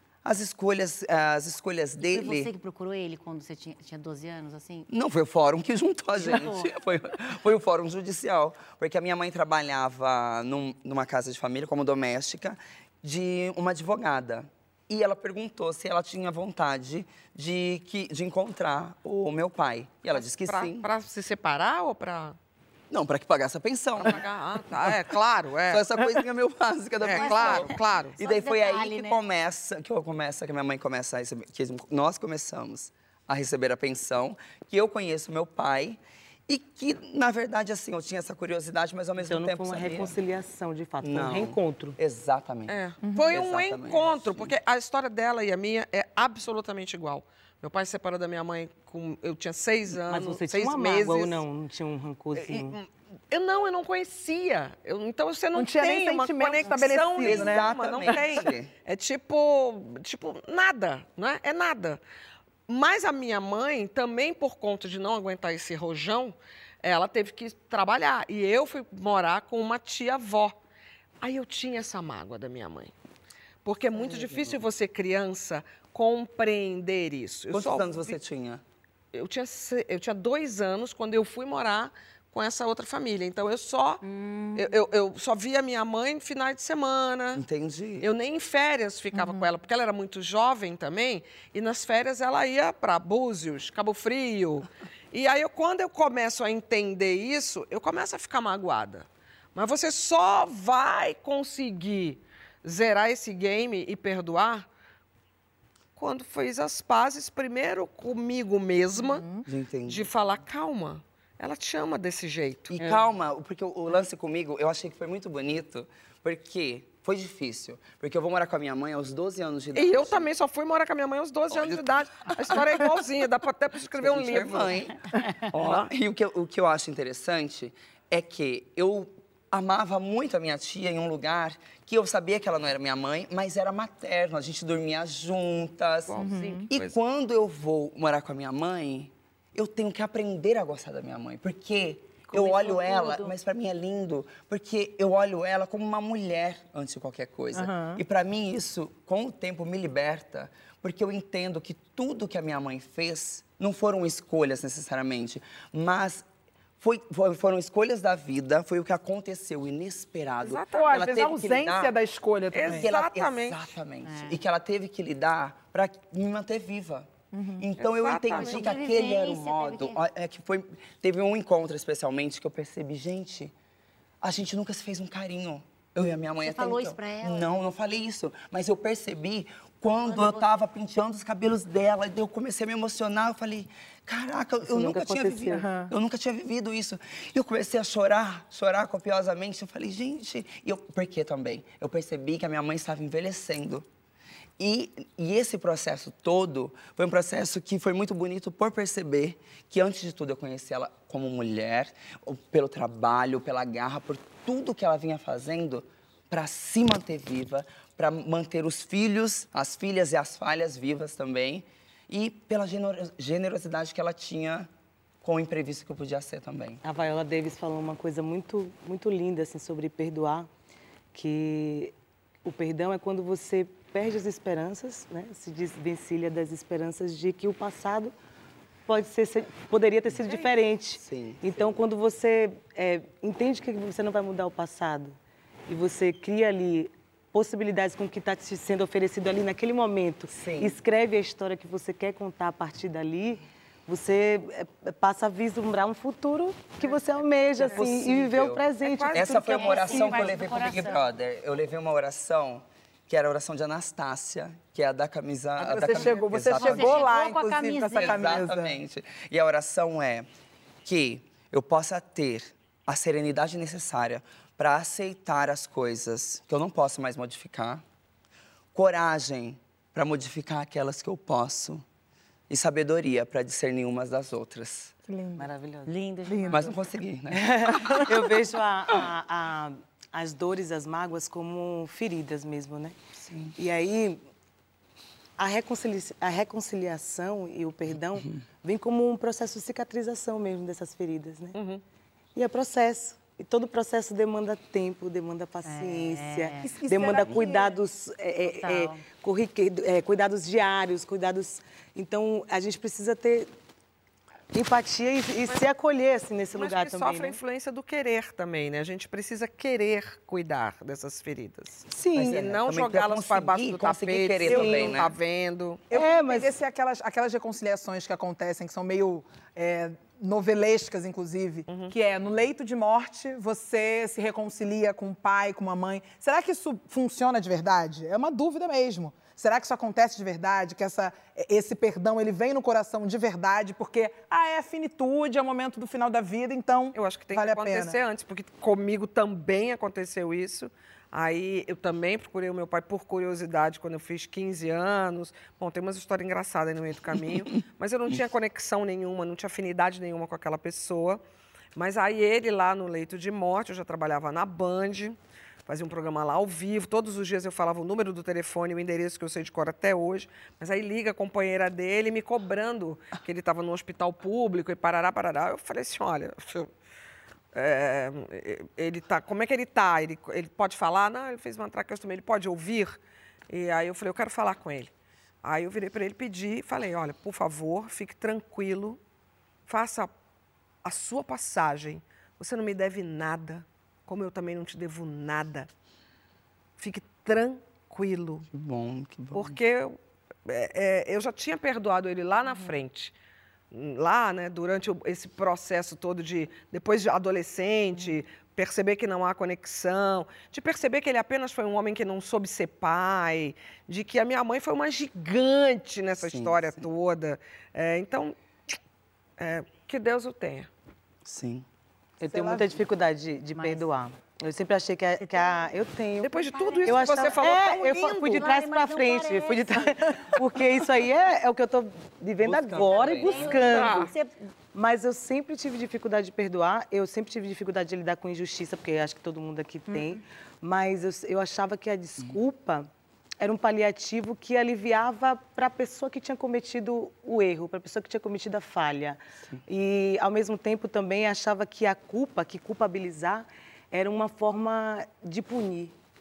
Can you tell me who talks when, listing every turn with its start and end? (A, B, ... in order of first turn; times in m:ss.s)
0:00.2-0:02.5 A
0:02.1-0:04.9 B
0:04.9-0:20.9 A
0:06.2-0:06.7 B
0:20.1-0:22.4 C
0:22.9-0:24.2 A
0:24.0-0:26.3 C
0:25.7-0:40.1 A
0:27.0-0:28.2 C
0:27.1-0:29.2 B
0:39.2-0:42.0 D
0:41.0-0:44.5 A
0:42.7-0:51.4 C
0:50.0-0:52.8 D
0:52.3-1:02.0 C
0:55.5-0:58.1 E
0:57.2-0:58.7 A
1:02.7-1:10.6 C
1:11.2-1:12.9 C
1:13.6-1:18.1 C
1:17.5-1:18.6 A
1:19.1-1:24.0 C
1:24.0-1:24.7 B
1:24.6-1:27.4 C
1:27.3-1:28.1 A
1:28.0-1:44.7 C
1:46.0-1:49.3 C
1:49.2-1:49.4 E
1:49.4-1:50.1 A
1:49.9-1:53.0 C
1:52.8-2:00.3 A
1:59.8-2:04.9 C
2:01.5-2:01.8 A
2:04.0-2:36.2 A
2:05.5-2:05.9 C
2:16.1-2:17.0 C
2:16.2-2:16.7 E
2:22.3-2:23.3 B
2:27.5-2:28.0 E
2:36.8-2:42.0 A
2:40.4-2:41.0 C
2:40.7-2:42.9 E
2:42.5-2:43.6 C
2:42.7-2:53.5 A
2:44.0-2:44.4 B
2:47.3-2:47.6 E
2:47.8-2:48.7 C
2:48.4-2:50.0 B
2:54.2-3:13.9 A
2:56.4-2:57.5 B
3:00.1-3:00.4 B
3:04.7-3:05.7 D
3:05.6-3:05.9 E
3:14.6-3:34.7 A
3:35.2-3:36.8 A
3:36.8-3:40.5 D
3:41.1-3:41.9 D
3:42.4-3:48.1 D
3:48.9-3:55.2 D
3:51.0-3:51.4 A
3:55.7-4:10.4 D
4:00.3-4:00.8 A
4:07.6-4:17.1 A
4:08.8-4:10.2 C
4:09.4-4:11.0 B
4:15.6-4:18.8 E
4:16.6-4:18.4 B
4:18.0-4:20.3 A
4:20.8-4:27.8 A
4:28.8-4:31.8 A
4:32.5-4:34.9 A
4:35.1-4:35.5 E
4:35.4-4:35.9 D
4:35.9-4:36.7 B
4:36.3-4:36.6 E
4:36.5-4:38.1 A
4:37.3-4:43.0 D
4:37.8-4:38.1 E
4:43.3-4:43.5 A
4:43.6-4:44.2 D
4:45.4-4:51.6 D
4:51.5-4:51.8 C
4:52.4-5:03.5 D
4:55.6-4:56.7 B
4:56.6-4:57.8 E
4:58.4-4:59.0 B
5:04.5-5:07.4 D
5:06.5-5:15.9 C
5:11.9-5:12.4 D
5:12.1-5:15.1 A
5:14.4-5:15.0 D
5:15.9-5:16.5 D
5:15.9-5:38.0 E
5:21.7-5:21.9 C
5:37.0-5:51.2 C
5:51.8-6:06.7 C
6:07.5-6:14.9 C
6:15.4-6:19.0 C
6:19.7-6:20.1 C
6:20.8-6:25.7 C
6:26.8-6:28.5 C
6:28.5-6:29.6 A
6:29.3-6:33.1 C
6:33.7-6:48.8 C
6:46.2-6:46.9 A
6:49.4-6:50.7 C
6:51.2-6:51.6 A
6:52.2-7:04.1 D
6:52.2-6:52.6 E
6:53.6-6:53.9 B
6:55.2-6:55.7 B
6:56.2-6:58.5 C
6:56.6-6:59.9 B
7:02.4-7:03.6 A
7:03.0-7:04.4 B
7:03.6-7:04.1 C
7:04.7-7:26.0 D